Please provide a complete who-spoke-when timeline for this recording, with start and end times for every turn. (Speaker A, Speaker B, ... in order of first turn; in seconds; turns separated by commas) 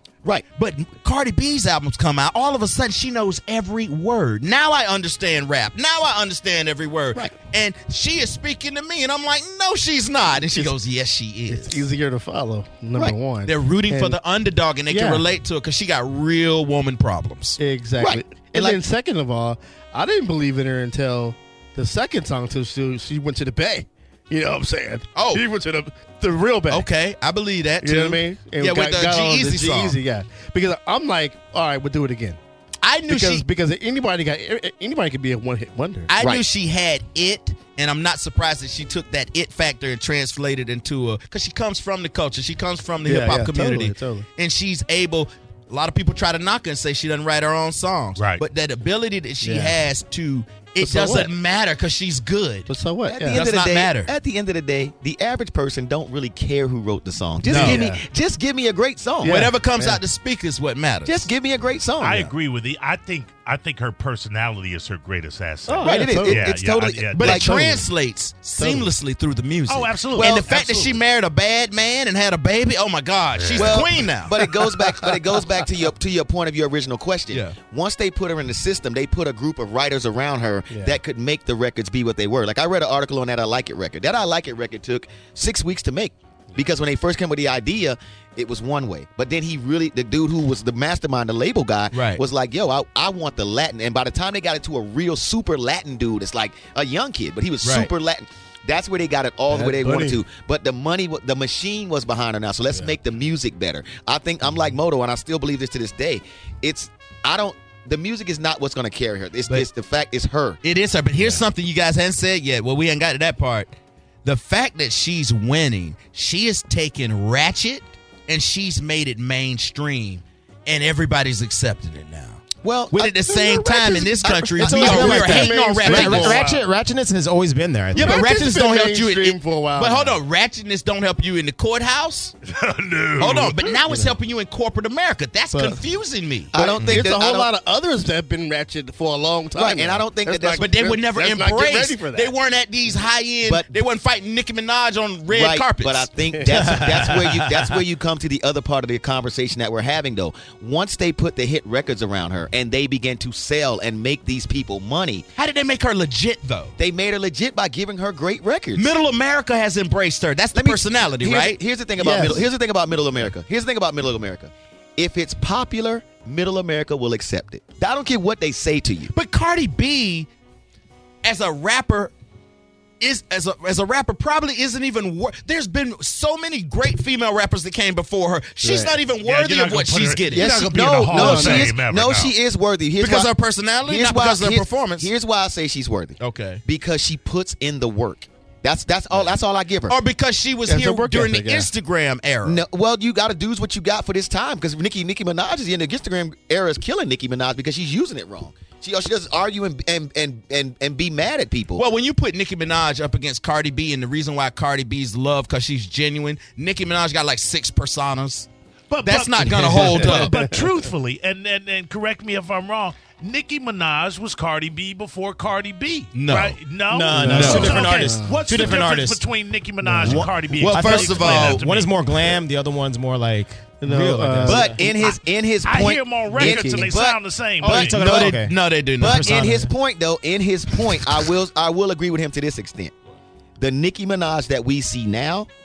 Speaker A: 0.6-11.8, Speaker B: 11.5-14.2, Speaker A: 13.4-17.6, Speaker B: 14.9-15.2, Speaker B: 17.6-26.9, Speaker C: 18.0-18.8, Speaker A: 25.1-25.4, Speaker A: 26.7-30.0, Speaker B: 27.8-32.4, Speaker A: 32.8-33.5, Speaker B: 33.1-36.1, Speaker A: 36.1-52.7, Speaker B: 43.0-44.3, Speaker D: 48.2-48.4, Speaker B: 49.4-49.8, Speaker B: 50.8-51.3, Speaker B: 52.7-53.5, Speaker C: 53.0-59.5, Speaker A: 53.3-54.1, Speaker A: 57.4-57.9, Speaker B: 57.5-58.0, Speaker B: 59.2-60.0, Speaker A: 59.2-61.3, Speaker C: 61.0-62.3, Speaker D: 62.0-67.4, Speaker B: 65.7-66.5, Speaker C: 65.8-67.7, Speaker A: 67.1-74.4, Speaker B: 67.3-67.8, Speaker B: 68.6-68.9, Speaker D: 69.7-71.0, Speaker D: 73.3-73.9, Speaker C: 73.5-110.6, Speaker B: 74.5-75.2, Speaker A: 77.3-77.5, Speaker B: 80.7-81.0, Speaker A: 91.9-92.2, Speaker A: 97.6-97.9, Speaker B: 99.5-100.2, Speaker A: 110.6-113.7, Speaker A: 114.2-126.5, Speaker C: 122.6-123.1, Speaker B: 123.2-126.6, Speaker C: 124.3-125.4, Speaker E: 124.6-128.2, Speaker A: 127.9-132.3, Speaker B: 127.9-130.2, Speaker D: 132.4-133.7, Speaker A: 133.2-137.1, Speaker B: 133.8-134.1, Speaker C: 136.5-137.5, Speaker B: 136.6-142.3, Speaker C: 139.5-140.8, Speaker A: 140.6-146.1, Speaker C: 143.4-143.8, Speaker C: 145.3-155.2, Speaker B: 146.3-147.1, Speaker A: 146.6-147.2, Speaker A: 155.3-156.8, Speaker C: 156.8-158.9, Speaker A: 158.7-161.6, Speaker C: 160.5-169.1, Speaker B: 162.0-162.5, Speaker A: 169.1-170.3, Speaker A: 171.2-172.1, Speaker A: 173.0-180.5, Speaker B: 178.6-178.9, Speaker D: 179.2-182.3, Speaker C: 180.3-183.3, Speaker B: 181.1-181.7, Speaker A: 183.0-185.1, Speaker C: 183.8-190.0, Speaker A: 186.2-186.6, Speaker A: 189.9-192.6, Speaker B: 190.7-191.7, Speaker C: 192.4-201.8, Speaker A: 201.7-208.5, Speaker D: 208.9-222.2, Speaker A: 209.0-210.3, Speaker B: 209.6-210.6, Speaker A: 216.1-216.6, Speaker E: 216.9-219.2, Speaker B: 217.1-218.6, Speaker A: 217.2-217.8, Speaker B: 219.9-220.2, Speaker E: 220.0-224.8, Speaker A: 220.0-221.6, Speaker B: 223.8-225.0, Speaker C: 224.4-228.5, Speaker D: 225.0-228.0, Speaker B: 226.3-226.9, Speaker E: 227.6-229.7, Speaker A: 227.9-229.4, Speaker C: 229.0-232.9, Speaker C: 233.6-235.5